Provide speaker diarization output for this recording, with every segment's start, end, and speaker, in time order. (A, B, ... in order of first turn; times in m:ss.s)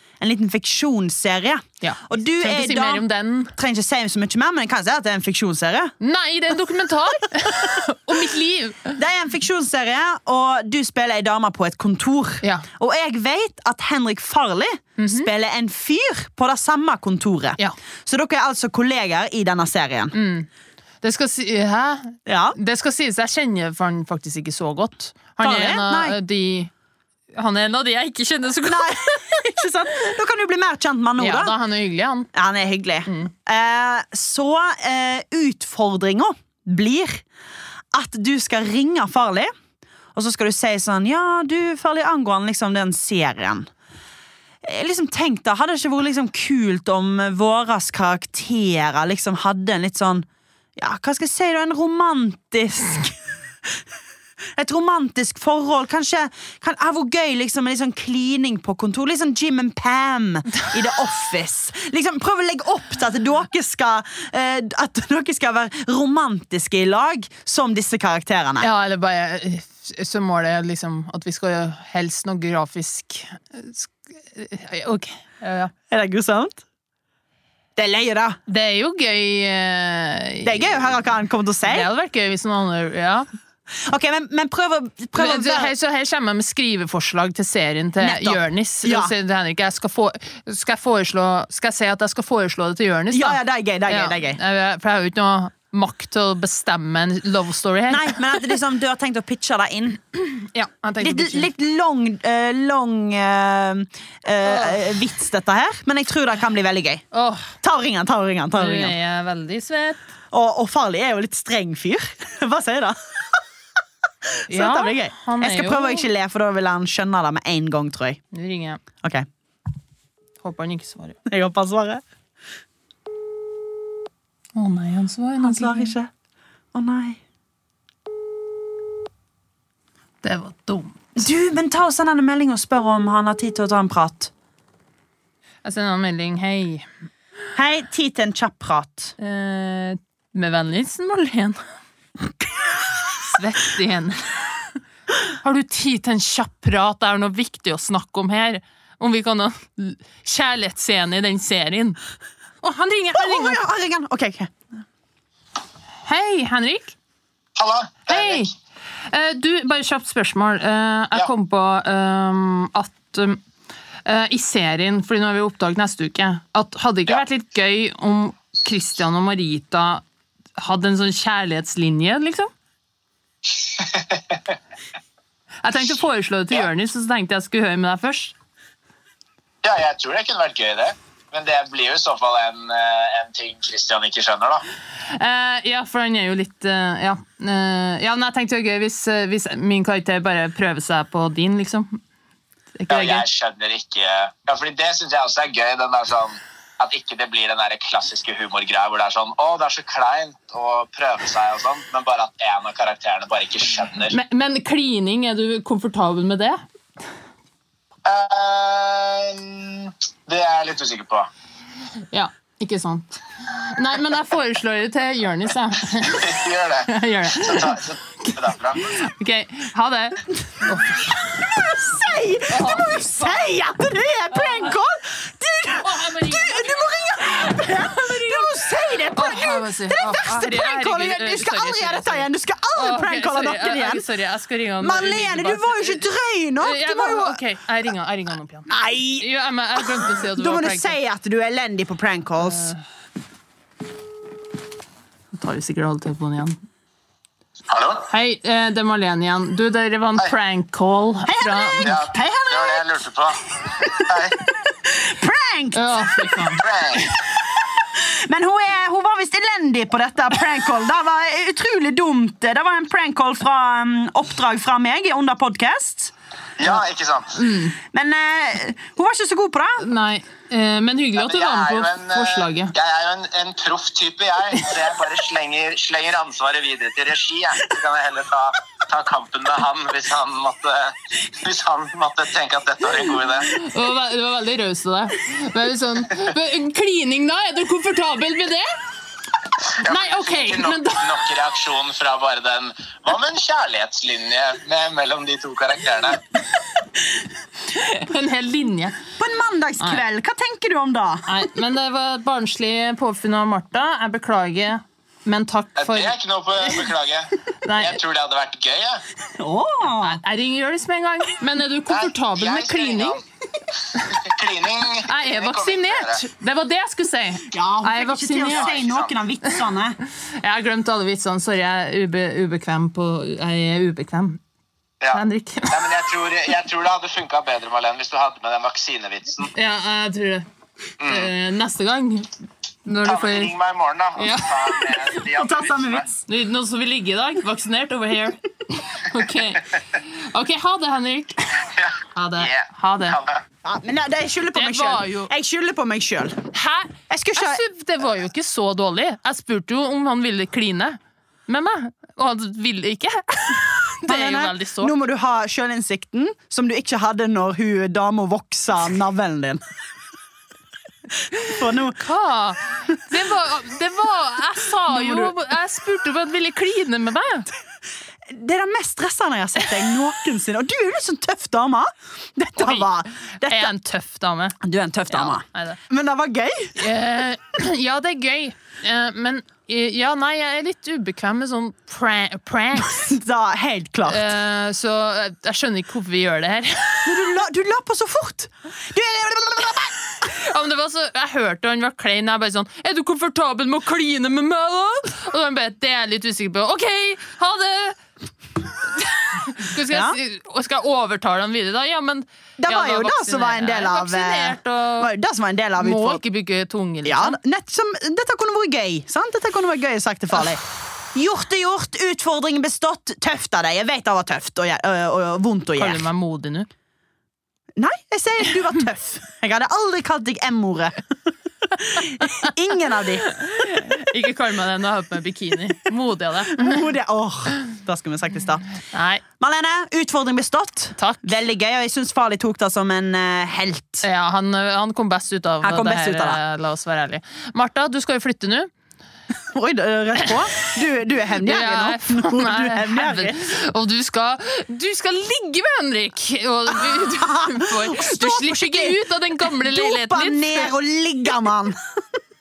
0:00.2-0:03.0 A
0:01.8-0:03.5 B
0:03.6-0:05.9 A
0:06.0-0:09.0 B
0:09.0-0:20.1 A
0:15.0-0:15.3 B
0:20.1-0:20.5 B
0:21.0-0:26.7 B
0:22.2-0:22.6 A
0:25.4-0:26.2 A
0:27.3-0:29.7 B
0:28.7-0:31.5 A
0:31.2-0:32.3 B
0:32.3-0:37.2 A
0:33.0-0:33.3 B
0:37.9-0:39.5 A
0:40.1-0:43.7 A
0:44.6-0:50.2 A
0:50.8-0:53.8 A
0:54.6-1:08.7 A
1:08.6-1:15.7 B
1:15.9-1:16.6 A
1:17.8-1:18.4 A
1:18.5-1:20.8 B
1:20.4-1:21.9 A
1:21.6-1:23.2 B
1:23.7-1:25.7 A
1:25.1-1:38.4 B
1:28.0-1:29.1 A
1:33.1-1:34.4 A
1:37.9-1:40.0 A
1:40.2-1:41.5 B
1:41.0-1:47.0 A
1:44.4-1:44.9 B
1:47.1-1:47.5 B
1:47.6-1:49.0 A
1:48.6-1:50.0 B
1:50.3-1:53.4 A
1:54.2-1:58.2 A
1:54.5-1:56.1 B
1:58.3-1:58.8 B
2:00.4-2:01.2 B
2:01.2-2:02.0 A
2:04.5-2:05.9 B
2:05.4-2:06.1 A
2:06.7-2:07.2 A
2:10.2-2:11.0 B
2:11.2-2:14.3 A
2:15.6-2:16.8 B
2:17.5-2:19.1 A
2:19.2-2:21.6 B
2:23.2-2:24.2 B
2:25.4-2:32.0 B
2:32.6-2:33.6 B
2:33.1-2:34.5 A
2:36.0-2:36.9 B
2:37.6-2:38.5 C
2:38.1-2:38.5 B
2:39.1-2:43.4 B
2:44.0-2:50.0 B
2:50.6-2:52.5 B
2:53.6-2:54.4 C
2:55.6-2:58.3 B
2:59.6-3:04.6 C
3:05.1-3:12.0 B
3:12.8-3:13.2 B
3:12.9-3:24.1 C
3:24.1-3:26.6 B
3:28.0-3:31.3 C
3:32.1-3:41.2 B
3:36.0-3:38.9 C
3:41.2-3:54.0 A
3:42.5-3:43.5 B
3:44.3-3:44.7 B
3:45.8-3:56.0 B
3:54.8-3:57.4 A
3:56.6-4:01.0 B
3:58.7-3:59.3 A
4:00.0-4:02.7 A
4:02.4-4:02.8 B
4:05.3-4:06.6 B
4:07.7-4:08.1 C
4:08.1-4:12.0 B
4:11.2-4:12.8 A
4:11.8-4:14.4 C
4:13.6-4:26.1 A
4:15.7-4:16.6 B
4:16.6-4:17.2 C
4:26.6-4:27.4 C
4:27.3-4:27.8 B
4:27.8-4:29.8 A
4:29.8-4:32.7 B
4:31.2-4:43.5 C
4:43.4-4:48.7 B
4:49.6-4:56.2 C
4:49.8-4:51.3 B
4:57.7-4:59.0 B
4:59.2-5:01.3 A
5:01.3-5:06.8 B
5:05.8-5:09.0 C
5:07.6-5:08.0 B
5:09.3-5:10.2 A
5:10.0-5:13.2 B
5:11.9-5:13.2 C
5:13.8-5:16.2 C
5:15.0-5:18.7 B
5:17.5-5:20.0 A
5:18.4-5:19.1 C
5:20.2-5:24.4 B
5:25.0-5:29.5 C
5:25.1-5:25.9 B
5:29.5-5:30.4 B
5:31.0-5:31.3 C
5:31.0-5:32.3 B
5:32.8-5:33.5 B
5:33.0-5:36.1 C
5:34.2-5:35.2 B
5:35.3-5:36.1 A
5:36.2-5:43.2 B
5:41.6-5:43.4 C
5:43.6-5:46.4 A
5:44.5-5:45.3 B
5:46.5-5:54.9 B
5:47.1-5:47.6 A
5:54.0-5:59.6 A
6:01.3-6:02.0 A
6:02.0-6:07.5 B
6:04.9-6:05.4 A
6:08.2-6:13.7 A
6:12.6-6:12.9 B
6:13.4-6:14.6 B
6:14.6-6:16.9 A
6:15.1-6:15.8 B
6:16.8-6:23.1 B
6:22.8-6:24.3 A
6:24.0-6:27.3 B
6:27.0-6:30.3 A
6:30.2-6:38.0 B
6:38.8-6:45.1 B
6:39.8-6:40.2 A
6:42.6-6:46.2 A
6:45.8-6:47.4 B
6:47.0-6:50.6 A
6:51.1-6:56.0 A
6:55.8-6:56.7 B
6:57.8-7:01.0 A
7:01.7-7:03.3 A
7:03.3-7:06.8 B
7:06.5-7:08.6 A
7:08.9-7:09.2 B
7:09.4-7:14.0 A
7:11.0-7:11.4 B
7:14.0-7:18.7 B
7:15.6-7:16.4 A
7:19.5-7:23.4 A
7:21.4-7:30.7 B
7:26.9-7:31.8 A